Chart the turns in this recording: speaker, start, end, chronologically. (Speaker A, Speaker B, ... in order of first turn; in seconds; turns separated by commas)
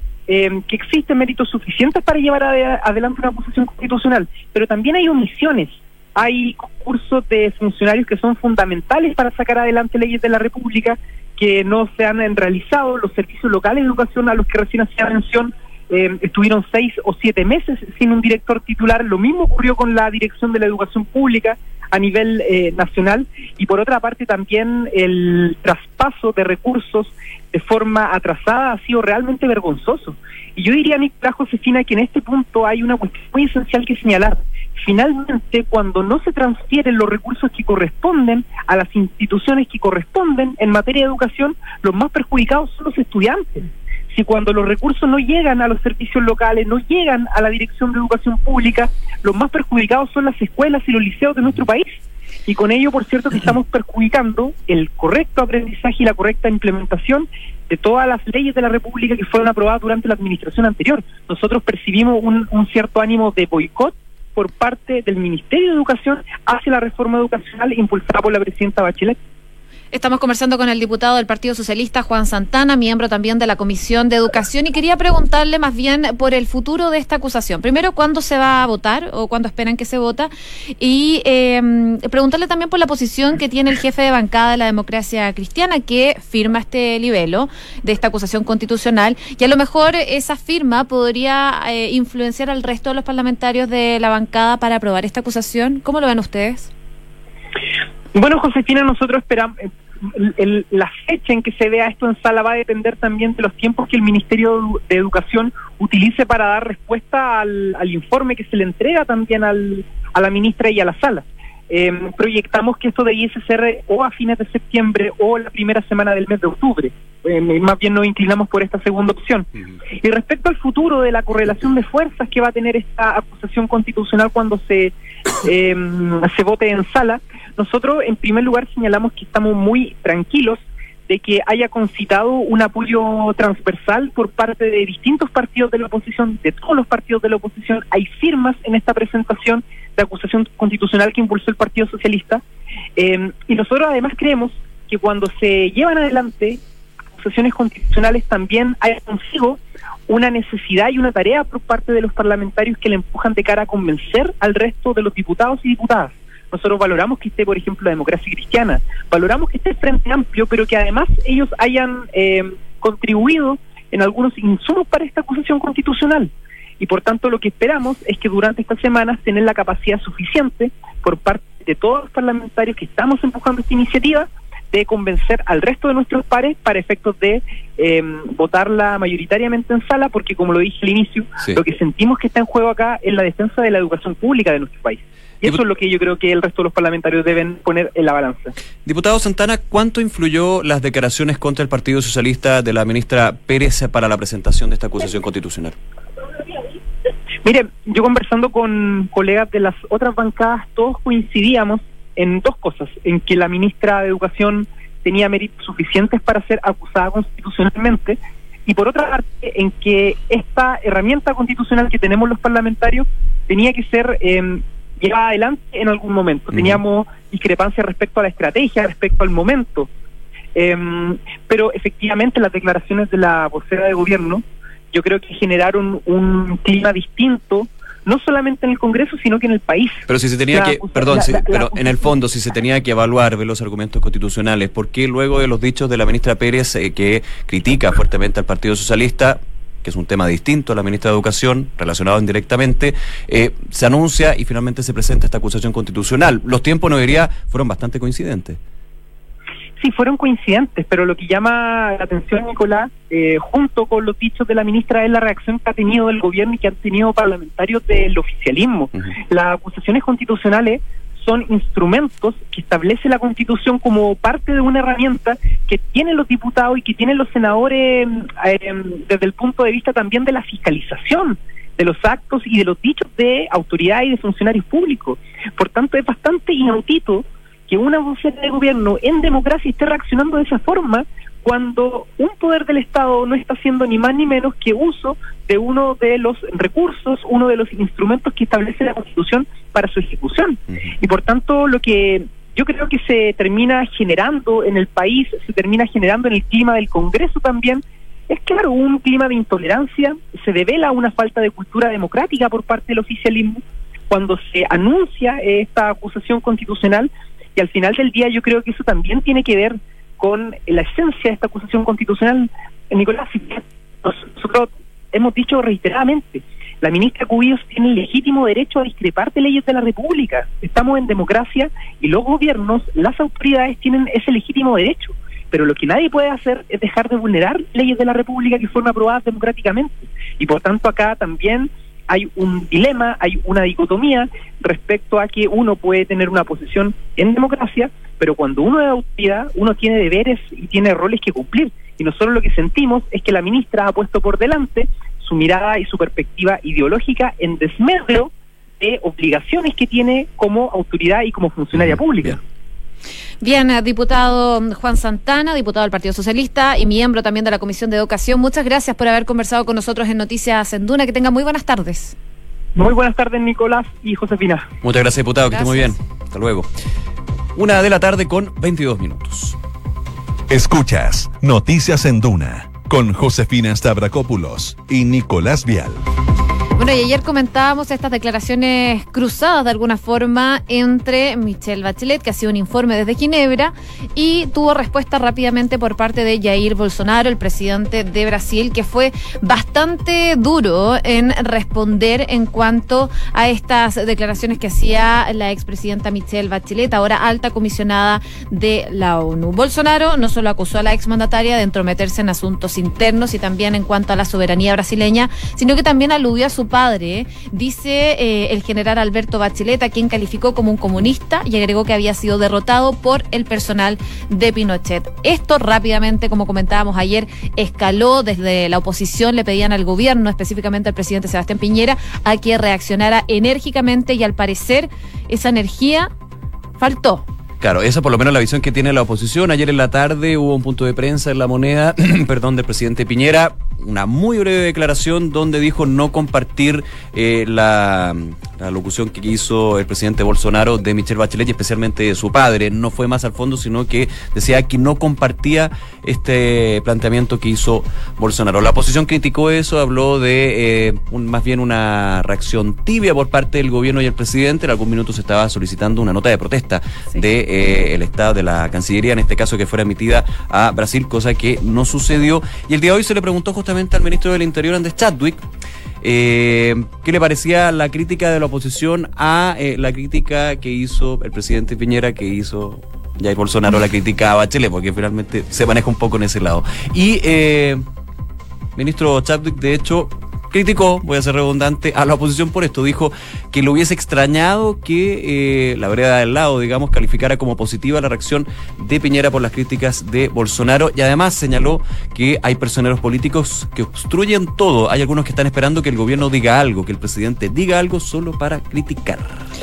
Speaker A: 0.3-69.2, Speaker B: 69.9-96.7, Speaker A: 98.1-142.4, Speaker A: 143.0-146.6, Speaker A: 147.2-188.5, Speaker C: 188.8-195.8, Speaker A: 197.4-219.9, Speaker C: 216.5-216.8, Speaker A: 220.6-232.0, Speaker C: 230.1-248.6, Speaker A: 249.8-352.4, Speaker C: 351.8-352.3, Speaker B: 353.4-362.1, Speaker A: 362.8-364.7, Speaker C: 364.8-366.7, Speaker B: 365.5-365.9, Speaker C: 367.6-369.6, Speaker D: 370.5-376.0, Speaker B: 376.8-426.1, Speaker B: 426.8-427.3, Speaker C: 427.6-465.4, Speaker C: 466.0-477.8, Speaker C: 478.8-499.4